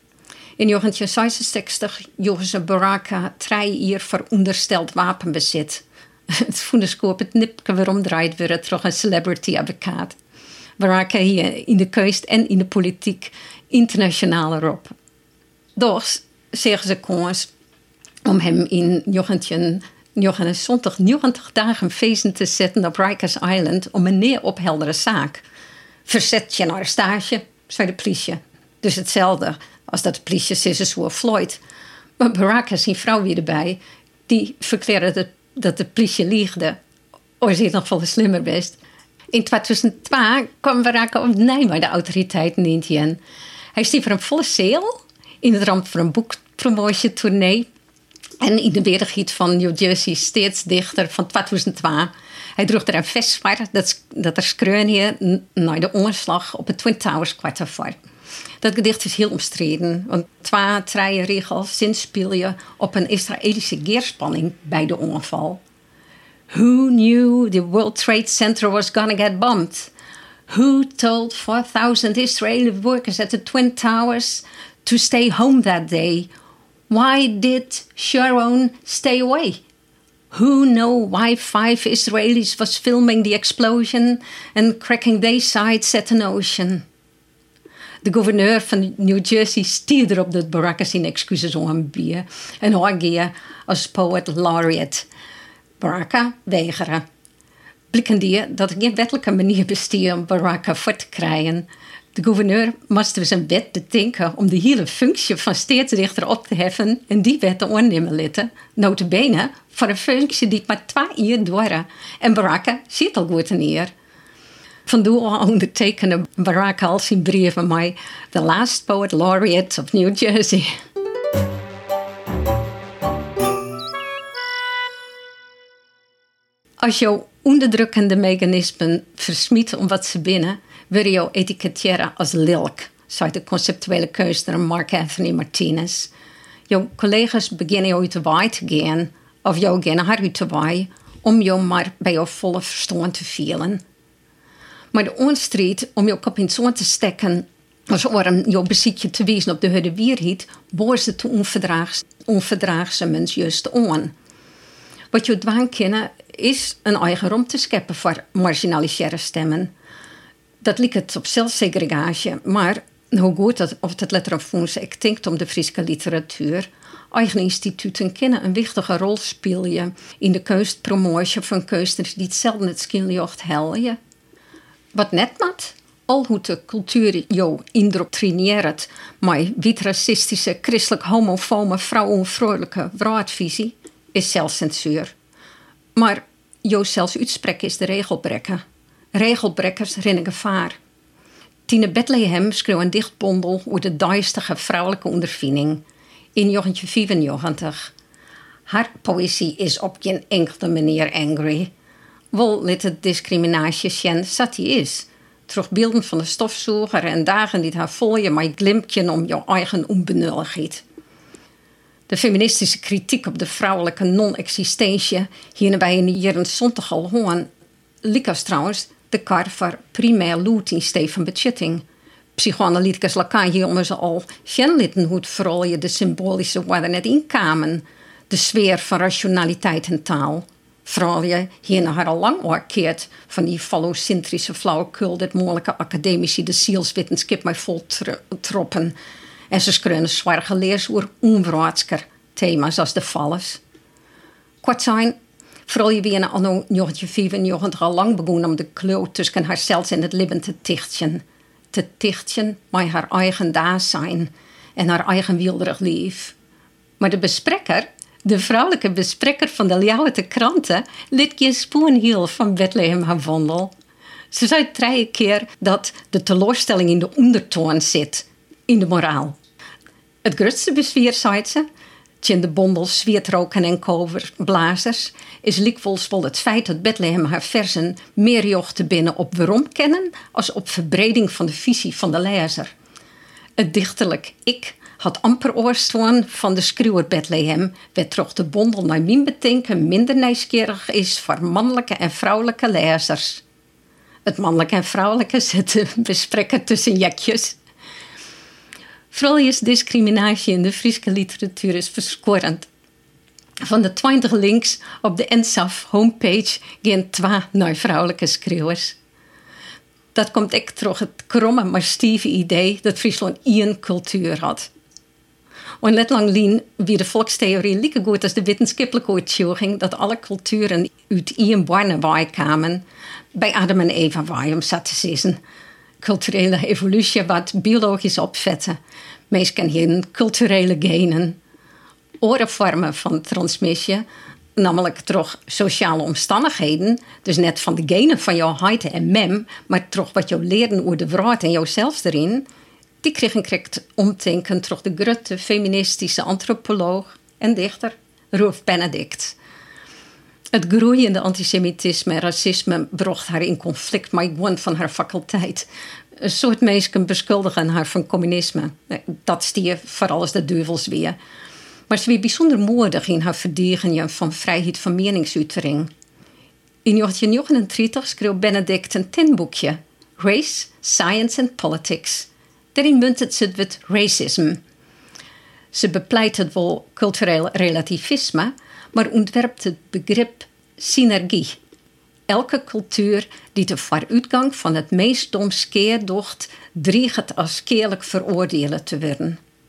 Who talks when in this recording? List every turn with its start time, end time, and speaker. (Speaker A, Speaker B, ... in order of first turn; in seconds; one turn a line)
Speaker A: 0.6-10.2
Speaker A: 10.8-14.9
Speaker A: 15.8-17.5
Speaker A: 18.3-25.4
Speaker A: 26.1-31.6
Speaker A: 32.2-36.8
Speaker A: 37.4-38.8
Speaker A: 39.3-43.2
Speaker A: 43.7-47.7
Speaker A: 48.4-58.0
Speaker A: 58.6-65.6
Speaker A: 66.5-69.9
Speaker A: 70.5-76.3
Speaker A: 76.9-79.6
Speaker A: 80.3-86.9
Speaker A: 88.0-95.1
Speaker A: 95.8-97.0
Speaker A: 97.9-113.9
Speaker A: 114.9-120.7
Speaker A: 126.8-136.1
Speaker A: 136.7-143.8
Speaker A: 144.9-154.1
Speaker A: 155.1-159.7
Speaker A: 160.6-174.0
Speaker A: 174.9-185.1
Speaker A: 186.0-188.6
Speaker A: 189.1-190.8
Speaker A: 191.7-195.8
Speaker A: 196.3-197.9
Speaker A: 198.7-201.7
Speaker A: 202.3-210.8
Speaker A: 212.1-217.5
Speaker A: 218.0-221.8
Speaker A: 222.4-238.9
Speaker A: 239.5-243.6
Speaker A: 244.6-245.2
Speaker A: 245.7-256.4
Speaker A: 257.0-263.7
Speaker A: 264.3-269.4
Speaker A: 270.2-271.6
Speaker A: 272.2-282.7
Speaker A: 283.6-293.4
Speaker A: 294.3-297.6
Speaker A: 299.1-302.7
Speaker A: 303.6-309.0
Speaker A: 310.1-314.7
Speaker A: 315.8-325.4
Speaker A: 326.0-328.8
Speaker A: 329.3-331.4
Speaker A: 332.2-334.1
Speaker A: 334.6-342.4
Speaker A: 343.0-349.4
Speaker A: 350.5-355.7
Speaker A: 356.2-361.2
Speaker A: 361.9-365.9
Speaker A: 366.9-374.6
Speaker A: 375.7-381.6
Speaker A: 382.3-389.4